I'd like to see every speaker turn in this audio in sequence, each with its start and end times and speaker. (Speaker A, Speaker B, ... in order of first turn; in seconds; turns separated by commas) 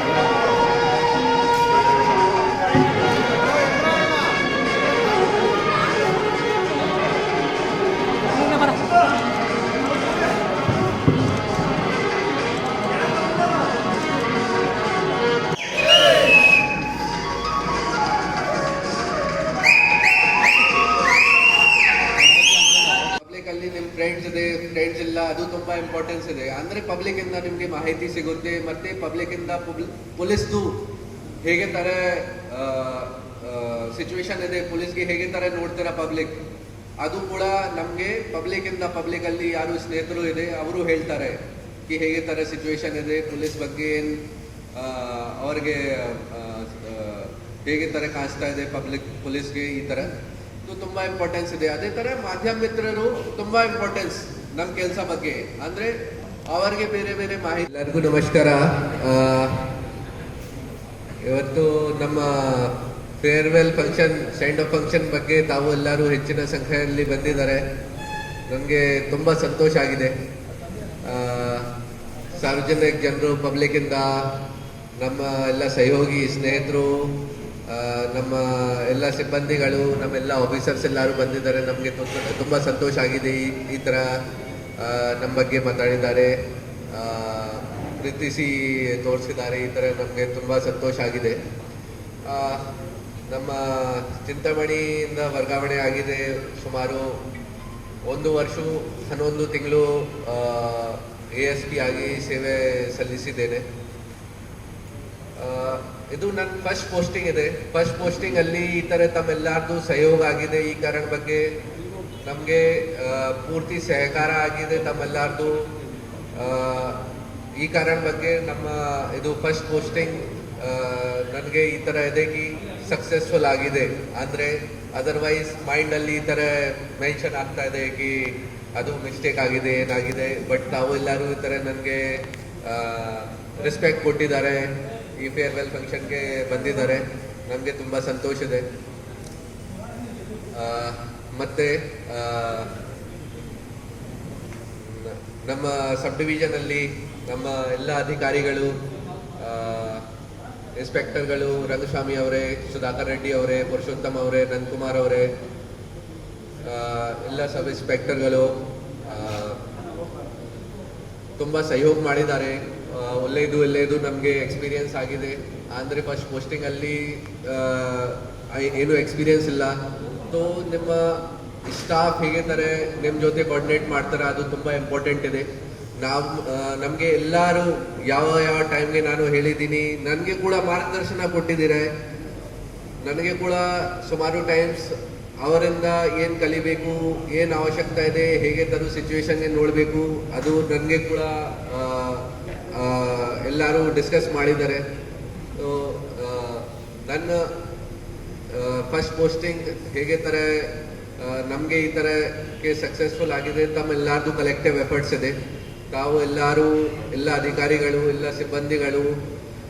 Speaker A: 23.2-30.8, Speaker A: 31.4-36.4, Speaker A: 37.0-44.2, Speaker A: 44.8-50.1, Speaker A: 50.6-55.9, Speaker A: 56.5-59.6, Speaker A: 61.3-67.6, Speaker A: 68.5-70.1, Speaker A: 71.1-71.7, Speaker A: 72.3-74.1, Speaker A: 75.0-77.2, Speaker A: 77.7-84.1, Speaker A: 84.8-86.3, Speaker A: 86.9-91.3, Speaker A: 92.3-92.6, Speaker A: 93.3-97.1, Speaker A: 98.1-103.6, Speaker A: 105.4-111.4, Speaker A: 112.2-115.6, Speaker A: 116.4-117.0, Speaker A: 117.6-138.6, Speaker A: 140.6-142.7, Speaker A: 144.8-148.7, Speaker A: 149.4-150.0, Speaker A: 150.8-155.3, Speaker A: 156.6-158.5, Speaker A: 159.1-159.6, Speaker A: 161.4-169.8, Speaker A: 170.3-175.4, Speaker A: 176.0-181.9, Speaker A: 183.0-194.8, Speaker A: 195.6-197.4, Speaker A: 198.5-205.3, Speaker A: 205.9-209.1